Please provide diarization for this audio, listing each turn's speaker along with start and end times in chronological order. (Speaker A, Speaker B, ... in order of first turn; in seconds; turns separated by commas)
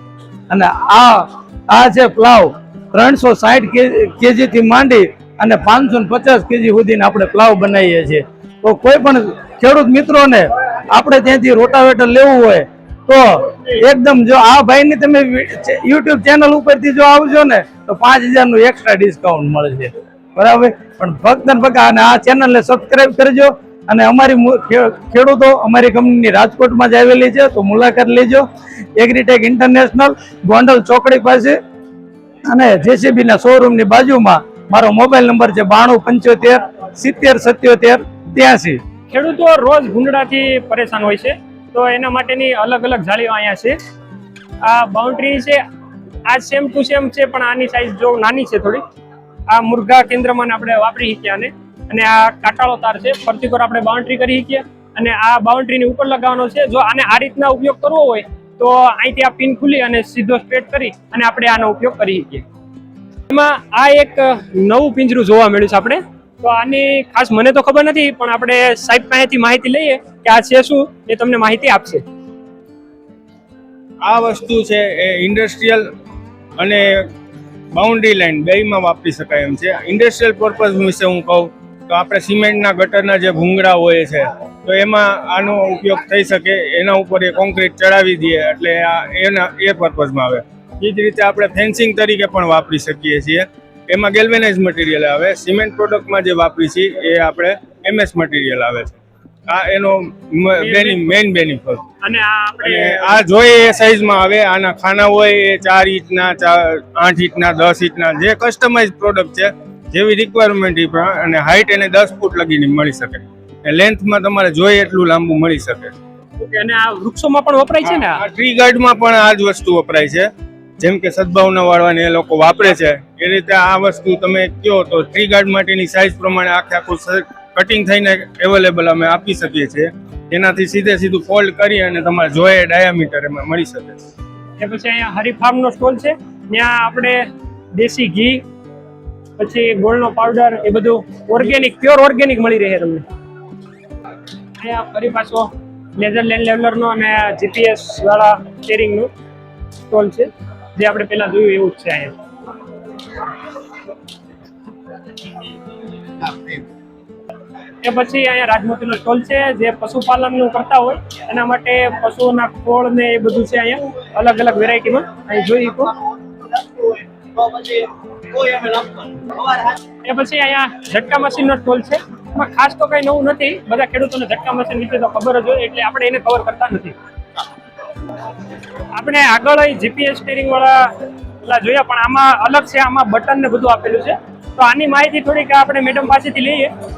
Speaker A: 0.5-28.4, Speaker A: 29.0-31.6, Speaker A: 32.5-38.8, Speaker B: 39.1-43.8, Speaker B: 44.6-45.6, Speaker B: 46.2-48.8, Speaker B: 49.5-62.4, Speaker B: 63.3-72.0, Speaker C: 74.0-75.8, Speaker C: 76.6-77.1, Speaker C: 77.7-101.8, Speaker B: 100.6-101.0, Speaker B: 102.0-103.2, Speaker C: 102.6-115.9, Speaker B: 116.4-118.2, Speaker C: 118.0-134.0, Speaker B: 134.6-138.4, Speaker B: 139.4-143.1, Speaker B: 144.6-149.1, Speaker B: 149.9-152.1, Speaker B: 157.8-165.9, Speaker B: 170.0-176.9, Speaker B: 178.9-180.9, Speaker B: 181.4-186.7